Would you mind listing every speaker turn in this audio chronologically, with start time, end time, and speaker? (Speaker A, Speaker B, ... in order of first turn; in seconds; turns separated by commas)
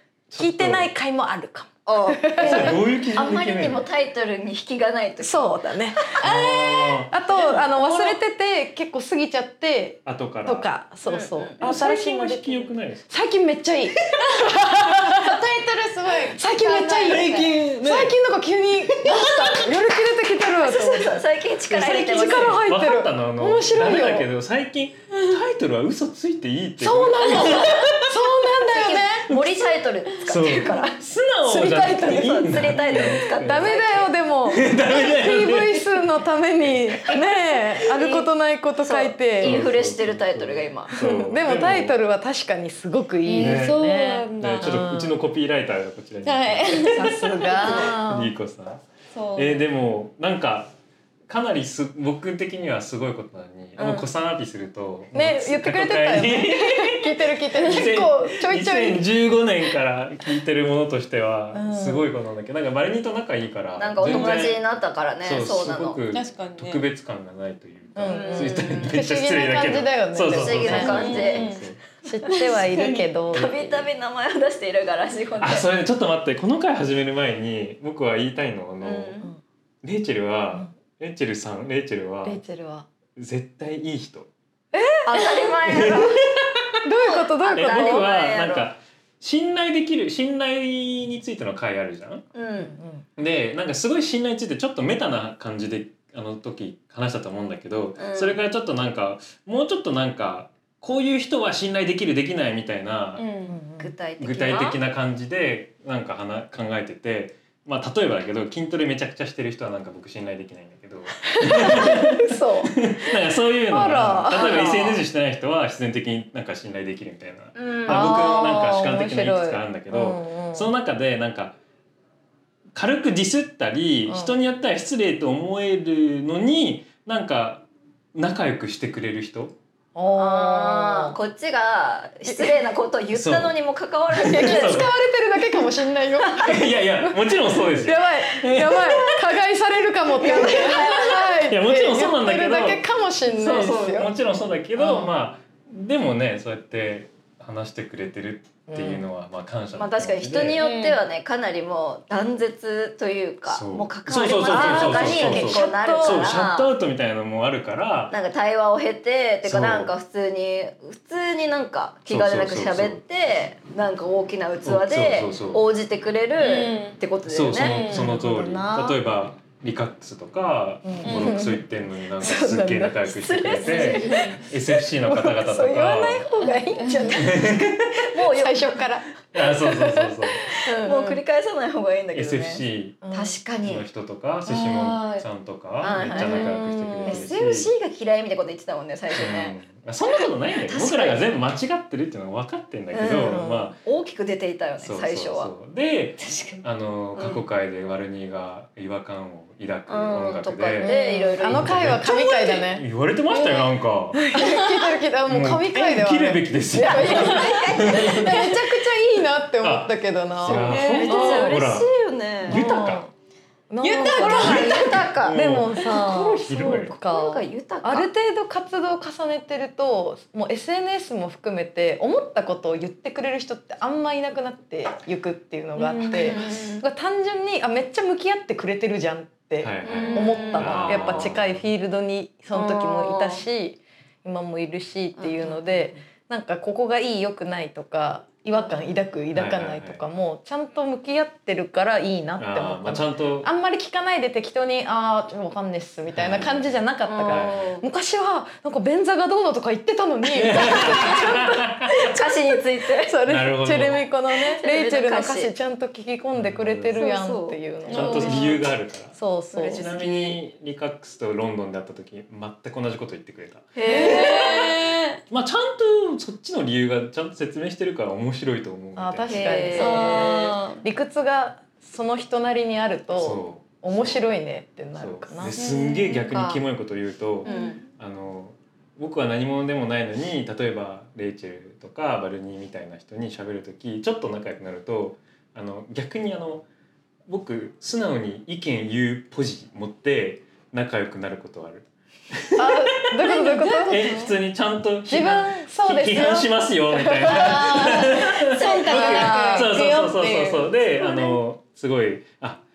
Speaker A: 0.3-0.9, Speaker B: 0.4-2.8, Speaker C: 1.9-5.5, Speaker A: 2.4-3.9, Speaker B: 5.2-6.3, Speaker D: 6.2-8.2, Speaker A: 6.2-7.1, Speaker B: 7.1-15.4, Speaker A: 10.1-10.7, Speaker C: 11.0-11.5, Speaker A: 11.6-13.1, Speaker D: 14.3-17.6, Speaker B: 16.3-24.3, Speaker A: 17.0-18.1, Speaker C: 19.1-19.6, Speaker D: 19.3-19.6, Speaker C: 20.6-22.6, Speaker A: 21.7-28.1, Speaker B: 26.8-29.3, Speaker C: 28.7-31.0, Speaker A: 29.3-33.8, Speaker B: 31.4-39.7, Speaker C: 31.5-34.1, Speaker A: 34.5-36.0, Speaker A: 36.6-37.1, Speaker C: 37.8-40.9, Speaker A: 39.4-42.0, Speaker B: 40.9-45.2, Speaker D: 43.2-44.9, Speaker A: 43.3-43.8, Speaker A: 44.4-48.8, Speaker D: 46.2-47.2, Speaker B: 46.8-48.3, Speaker C: 47.6-48.3, Speaker D: 49.1-49.7, Speaker A: 49.3-50.7, Speaker A: 51.3-64.6, Speaker C: 53.8-54.1, Speaker B: 55.1-59.0, Speaker B: 61.5-62.1, Speaker C: 63.8-66.0, Speaker D: 64.1-64.3, Speaker A: 65.2-71.8, Speaker D: 66.1-66.8, Speaker B: 67.9-71.1, Speaker C: 68.0-69.0, Speaker C: 70.3-71.5, Speaker D: 70.8-71.7, Speaker B: 72.0-73.6, Speaker D: 72.2-73.1, Speaker C: 73.3-75.7, Speaker A: 75.4-79.1, Speaker C: 78.8-79.3, Speaker A: 79.8-82.4, Speaker B: 82.2-82.9, Speaker A: 83.2-84.3, Speaker B: 84.7-85.5, Speaker C: 85.0-86.2, Speaker A: 85.6-86.8, Speaker B: 86.8-88.0, Speaker C: 87.0-88.7, Speaker A: 87.5-92.2, Speaker C: 92.3-92.7, Speaker B: 92.6-93.0, Speaker A: 93.2-103.2, Speaker C: 98.0-98.4, Speaker D: 103.2-103.6, Speaker B: 103.5-103.9, Speaker C: 103.8-104.8, Speaker A: 104.2-121.5, Speaker B: 111.3-112.8, Speaker B: 113.7-114.9, Speaker C: 114.3-115.0, Speaker C: 117.5-118.2, Speaker B: 117.9-120.7, Speaker A: 122.7-129.5, Speaker B: 124.0-124.4, Speaker B: 129.9-131.2, Speaker C: 130.2-134.9, Speaker B: 132.2-132.6, Speaker A: 133.1-133.6, Speaker A: 134.1-134.9, Speaker B: 134.2-144.1, Speaker A: 136.4-139.3, Speaker C: 140.2-141.3, Speaker A: 141.5-150.6, Speaker C: 143.4-143.8, Speaker B: 144.8-145.2, Speaker B: 148.7-149.1, Speaker C: 149.8-156.7, Speaker D: 150.6-151.0, Speaker A: 153.4-158.1, Speaker B: 154.4-156.3, Speaker C: 158.1-167.8, Speaker A: 159.4-159.9, Speaker A: 162.1-163.0, Speaker A: 164.6-165.6, Speaker D: 166.4-167.0, Speaker A: 167.2-176.3, Speaker D: 167.6-168.2, Speaker B: 167.9-169.0, Speaker B: 170.8-177.6, Speaker D: 171.0-171.4, Speaker C: 173.2-174.3, Speaker D: 173.7-174.4, Speaker D: 176.4-177.2, Speaker A: 177.1-178.1, Speaker C: 178.1-178.8, Speaker B: 178.2-181.2, Speaker A: 179.3-180.5, Speaker C: 180.7-183.9, Speaker A: 182.1-183.0, Speaker B: 183.0-183.4, Speaker A: 183.6-187.7, Speaker D: 184.4-185.2, Speaker C: 185.8-189.5, Speaker B: 186.1-187.3, Speaker A: 189.1-193.8, Speaker C: 190.6-191.3, Speaker C: 192.9-195.5, Speaker B: 193.2-193.7, Speaker A: 194.8-200.9, Speaker D: 196.2-196.6, Speaker C: 197.2-197.4, Speaker C: 199.9-201.7, Speaker D: 200.8-201.3, Speaker B: 200.8-202.8, Speaker A: 201.5-204.2, Speaker D: 203.3-203.7, Speaker B: 204.1-210.7, Speaker D: 204.3-204.9, Speaker A: 205.3-208.6, Speaker C: 207.1-208.1, Speaker D: 207.2-207.6, Speaker A: 209.6-211.9, Speaker C: 210.4-212.8, Speaker D: 210.7-211.6, Speaker A: 212.5-213.0, Speaker B: 212.5-213.1, Speaker B: 213.7-259.9, Speaker D: 213.8-215.1, Speaker C: 213.9-218.1, Speaker A: 214.5-216.9, Speaker D: 225.8-226.5, Speaker C: 226.1-226.8, Speaker A: 229.6-231.6, Speaker C: 229.8-231.3, Speaker C: 232.5-233.4, Speaker C: 235.2-236.0, Speaker A: 239.3-240.0, Speaker A: 242.4-243.5, Speaker A: 246.1-247.6, Speaker C: 247.1-247.8, Speaker A: 250.2-251.9, Speaker C: 250.7-251.2, Speaker C: 251.9-253.2, Speaker A: 253.3-254.1, Speaker C: 254.5-255.5, Speaker A: 256.3-256.9, Speaker C: 256.9-257.6, Speaker D: 257.8-258.6, Speaker A: 257.9-259.2, Speaker C: 259.5-260.4, Speaker A: 259.7-269.9, Speaker C: 263.7-264.6, Speaker D: 263.8-265.2, Speaker B: 268.9-275.6, Speaker C: 269.3-270.6, Speaker D: 269.8-270.8, Speaker A: 273.1-274.3, Speaker A: 274.9-286.6, Speaker D: 275.6-276.5, Speaker C: 276.3-276.6, Speaker C: 277.4-277.8, Speaker D: 277.4-277.8, Speaker A: 287.3-302.6, Speaker B: 292.6-294.2, Speaker D: 293.2-294.3, Speaker B: 295.1-299.7, Speaker D: 297.2-301.4, Speaker C: 298.1-299.6